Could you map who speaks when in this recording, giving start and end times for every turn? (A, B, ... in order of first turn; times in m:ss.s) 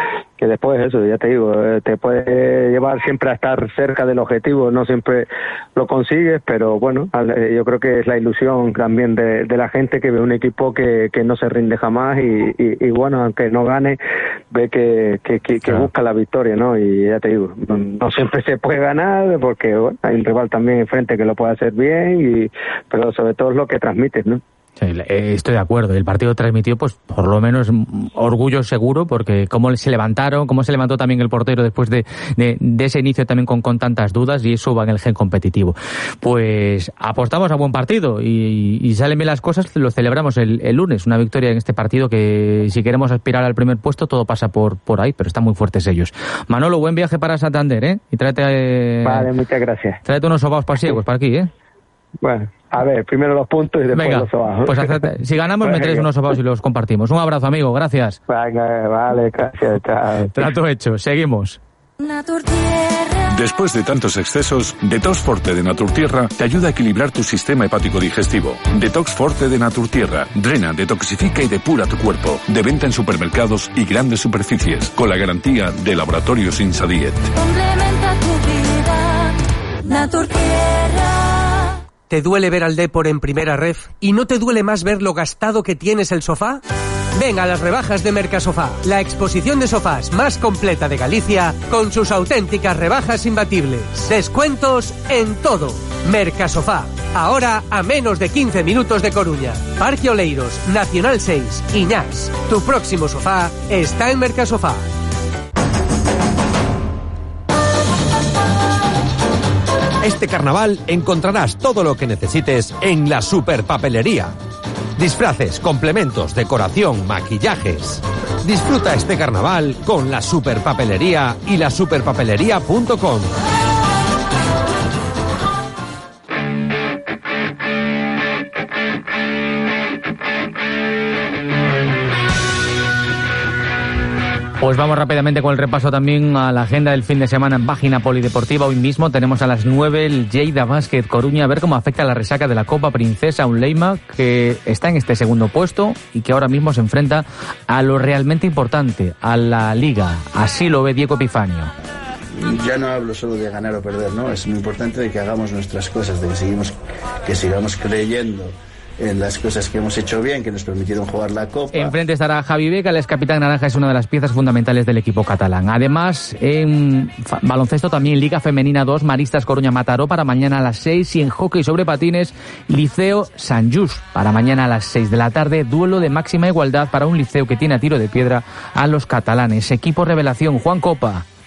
0:00.4-0:14.0 A
0:14.5-0:24.4 A
0:24.8-0:49.3 B
0:49.0-0:50.0 A
0:50.0-0:51.5 B
0:52.2-0:55.0 A
0:53.9-0:58.2 B
0:55.6-0:56.0 A
0:58.3-1:00.5 A
1:00.3-1:01.6 B
1:03.3-1:17.3 C
1:22.1-1:26.6 D
1:27.2-1:44.9 D
1:50.0-1:54.4 E
1:55.0-2:03.3 E
2:14.6-2:31.7 B
2:32.4-2:36.7 F
2:37.3-2:42.0 F
2:41.7-3:01.2 B